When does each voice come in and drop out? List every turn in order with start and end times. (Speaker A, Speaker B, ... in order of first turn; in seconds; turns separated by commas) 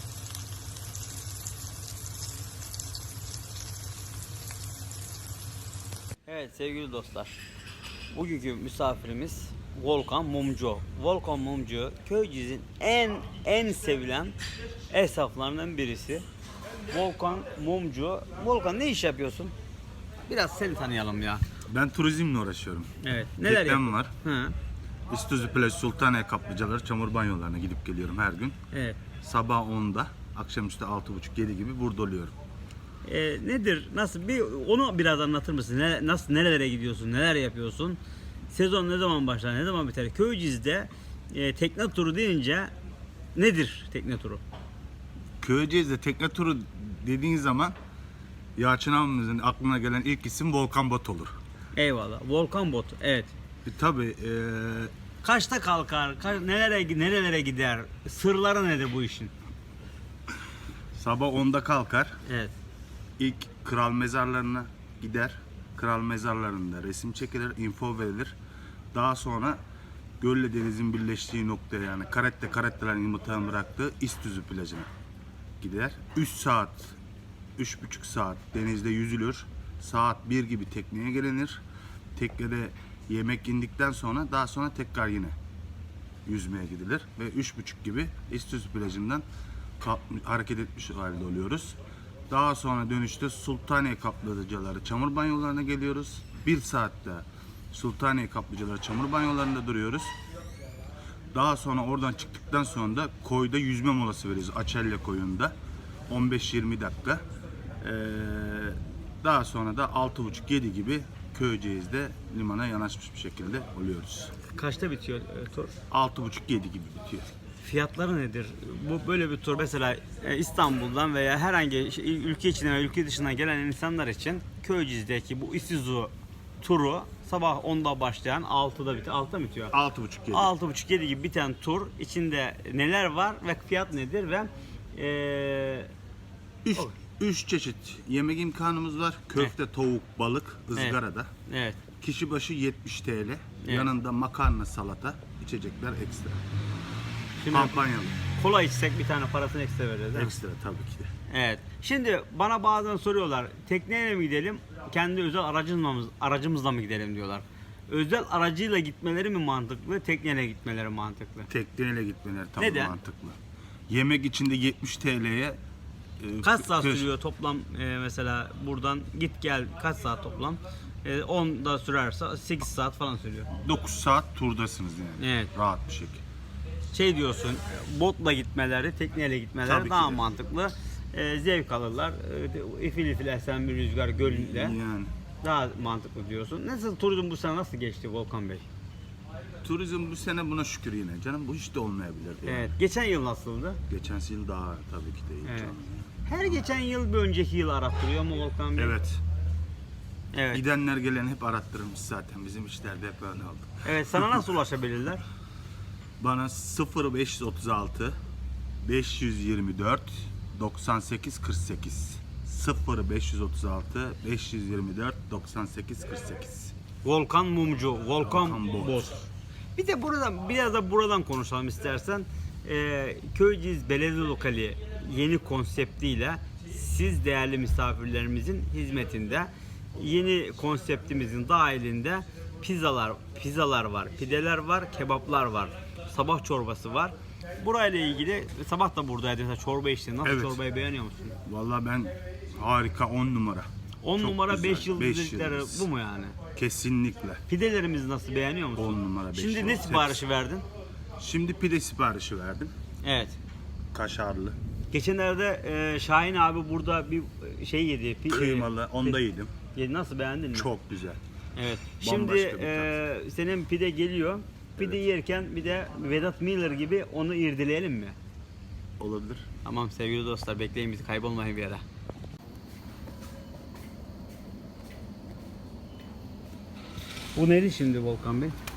Speaker A: 6.3-7.3, Speaker A: 8.1-14.4, Speaker A: 14.9-16.3, Speaker A: 16.9-19.5, Speaker A: 20.3-21.4, Speaker B: 21.7-24.1, Speaker A: 23.0-24.6, Speaker B: 25.1-28.6, Speaker A: 28.7-29.0, Speaker B: 29.2-32.3, Speaker A: 33.0-38.0, Speaker A: 38.5-42.7, Speaker A: 43.4-44.4, Speaker B: 45.4-47.8, Speaker B: 48.6-51.3, Speaker A: 51.8-53.3, Speaker B: 53.6-54.9, Speaker A: 55.2-59.3, Speaker B: 61.0-62.1, Speaker A: 62.3-62.5, Speaker B: 63.2-68.4, Speaker B: 68.9-69.6, Speaker B: 70.2-74.9, Speaker B: 75.6-77.0, Speaker B: 77.6-81.6, Speaker B: 82.2-85.3, Speaker B: 86.3-89.2, Speaker B: 89.8-91.8, Speaker B: 92.3-100.1, Speaker B: 101.3-105.5, Speaker B: 106.1-107.2, Speaker B: 107.8-114.3, Speaker A: 114.5-115.7, Speaker B: 115.9-117.3, Speaker A: 117.6-129.7, Speaker B: 129.7-130.5, Speaker A: 130.3-135.9, Speaker B: 136.7-141.3, Speaker A: 140.8-141.8, Speaker B: 142.0-146.4, Speaker A: 143.6-143.9, Speaker A: 147.4-150.3, Speaker B: 147.5-148.2, Speaker B: 150.2-151.1, Speaker A: 151.3-161.5, Speaker B: 161.5-163.4, Speaker A: 162.6-162.9, Speaker B: 163.9-165.6, Speaker B: 166.2-167.1, Speaker A: 166.4-173.5, Speaker B: 173.5-176.2, Speaker A: 175.2-175.5, Speaker A: 176.9-184.8, Speaker B: 179.7-180.3, Speaker B: 184.2-185.1, Speaker A: 185.4-188.7, Speaker B: 189.6-192.7, Speaker A: 192.4-193.8, Speaker B: 193.9-196.1, Speaker A: 195.4-195.7, Speaker A: 196.2-199.0, Speaker B: 198.8-199.2, Speaker A: 200.3-200.6, Speaker B: 200.5-204.4, Speaker A: 203.8-205.2, Speaker B: 206.2-208.2, Speaker B: 208.8-216.7, Speaker A: 217.0-219.2, Speaker B: 218.2-219.3, Speaker A: 219.8-241.4, Speaker B: 240.2-240.6, Speaker B: 241.4-243.7, Speaker A: 244.0-246.4, Speaker B: 244.2-245.9, Speaker B: 246.6-247.4, Speaker A: 247.5-250.7, Speaker B: 248.8-250.2, Speaker B: 251.2-252.7, Speaker A: 253.0-253.4, Speaker B: 253.9-254.6, Speaker A: 254.9-259.2, Speaker B: 258.3-259.5, Speaker A: 259.7-260.7, Speaker B: 260.5-261.2, Speaker A: 261.6-268.2, Speaker B: 262.0-263.0, Speaker B: 269.0-269.5, Speaker A: 269.6-271.8, Speaker A: 277.4-278.6